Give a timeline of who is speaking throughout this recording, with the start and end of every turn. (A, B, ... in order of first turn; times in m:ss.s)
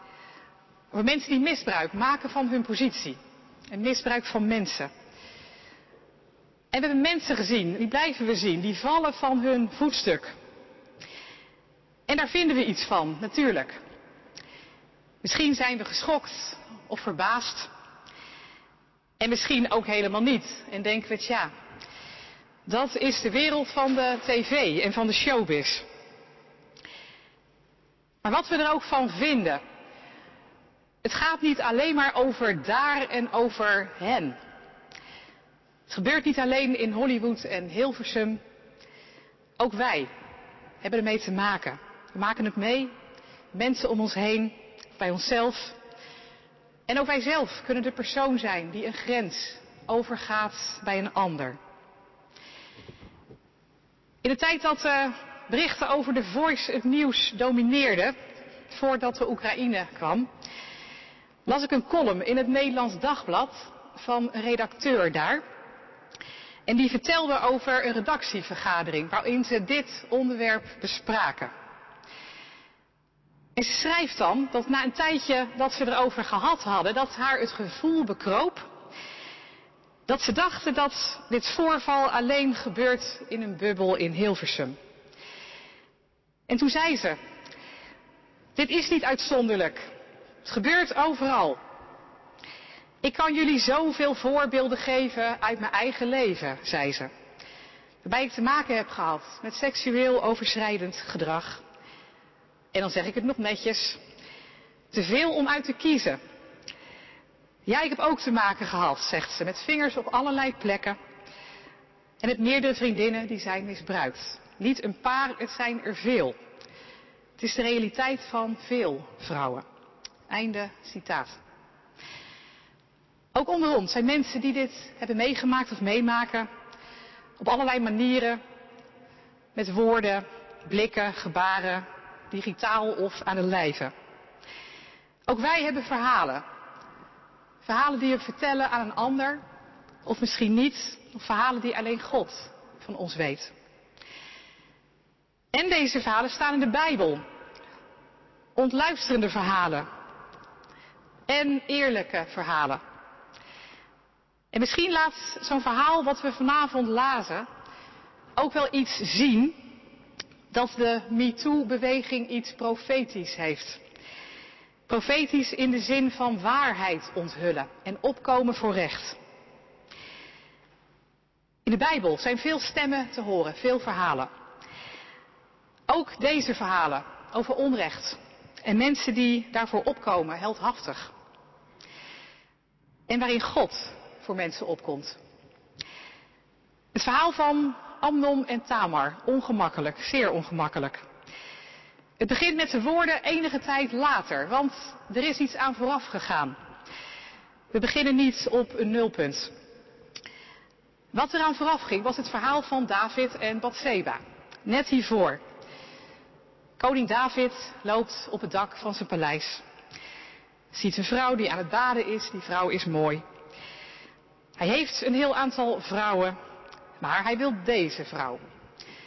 0:00.9-0:03.2 A
0:03.7-0:04.9 A
0:06.7-0:10.3 A
0:12.1-0:13.8 A
0:15.2-0:17.7 A
0:19.2-0:21.5 A
0:22.6-0:25.8 A
0:28.2-0:29.6 A
0:31.0-0:34.4 A
0:35.9-0:38.4 A
0:39.6-0:40.1 A
0:40.8-0:42.9 A
0:43.5-0:45.8 A
0:46.9-0:51.6 A
0:54.2-0:58.1 A
0:58.7-1:00.3 A
1:01.4-1:05.4 A
1:06.7-1:11.5 A
1:13.6-1:18.7 A
1:20.1-1:24.8 A
1:26.5-1:27.2 A
1:28.6-1:29.9 A
1:30.4-1:31.6 A
1:33.0-1:37.1 A
1:38.0-1:41.6 A
1:42.7-1:44.0 A
1:44.9-1:46.2 A
1:47.6-1:51.0 A
1:52.2-1:56.4 A
1:57.4-1:59.6 A
2:00.3-2:01.4 A
2:03.3-2:06.5 A
2:07.4-2:08.4 A
2:09.5-2:13.9 A
2:15.3-2:16.4 A
2:17.6-2:19.4 A
2:20.0-2:23.5 A
2:25.5-2:27.2 A
2:28.6-2:29.8 A
2:31.3-2:32.8 A
2:34.5-2:37.5 A
2:38.4-2:39.6 A
2:40.5-2:43.8 A
2:44.9-2:49.2 A
2:51.6-2:54.3 A
2:55.9-3:01.1 A
3:03.1-3:05.2 A
3:06.9-3:11.0 A
3:12.2-3:16.5 A
3:17.7-3:19.5 A
3:21.1-3:25.4 A
3:26.8-3:29.6 A
3:30.7-3:33.2 A
3:34.6-3:36.4 A
3:37.0-3:38.4 A